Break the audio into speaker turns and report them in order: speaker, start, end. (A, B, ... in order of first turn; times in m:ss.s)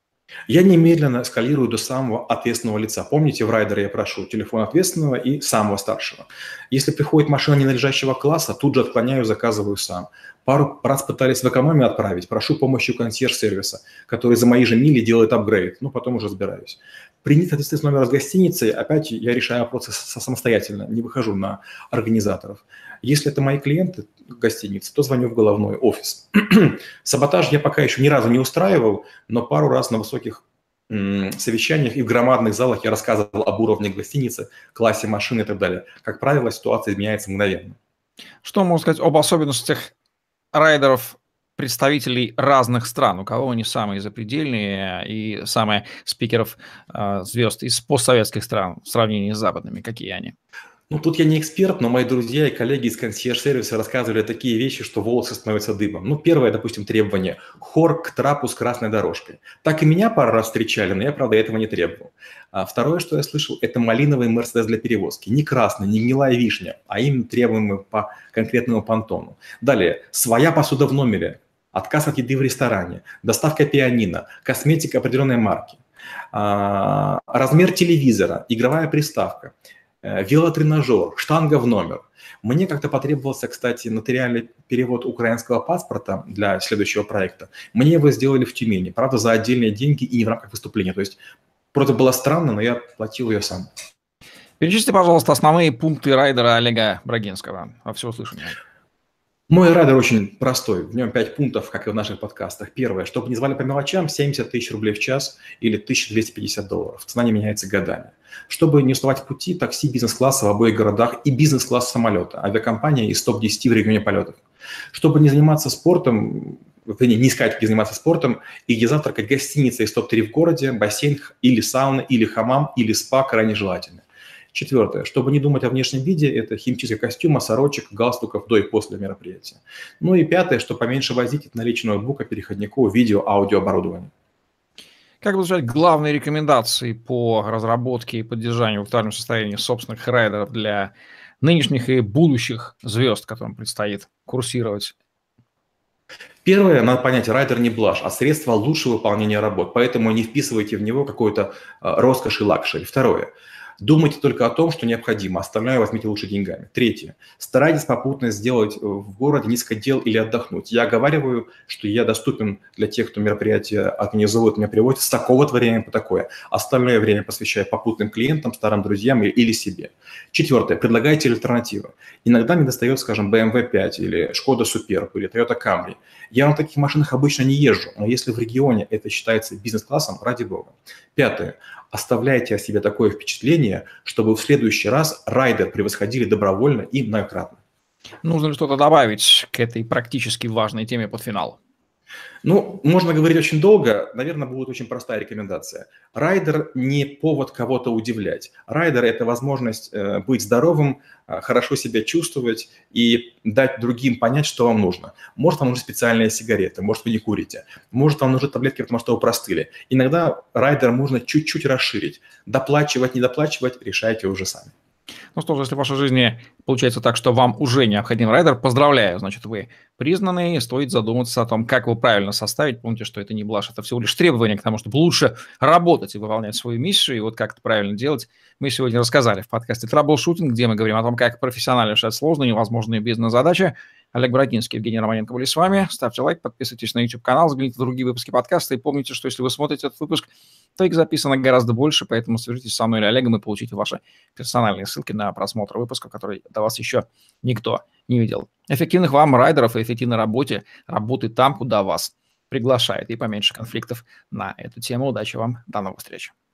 0:00.5-0:37.8 A
0:38.4-0:39.9 B
0:40.5-0:50.4 B
0:50.9-1:15.8 A
1:16.3-1:31.2 A
1:31.7-1:33.7 A
1:34.6-1:38.6 B
1:39.5-1:54.4 A
1:54.9-2:14.1 A
2:15.2-2:24.9 B
2:26.4-3:07.6 A
3:08.2-3:11.6 B
3:12.4-3:34.7 A
3:35.4-4:16.3 B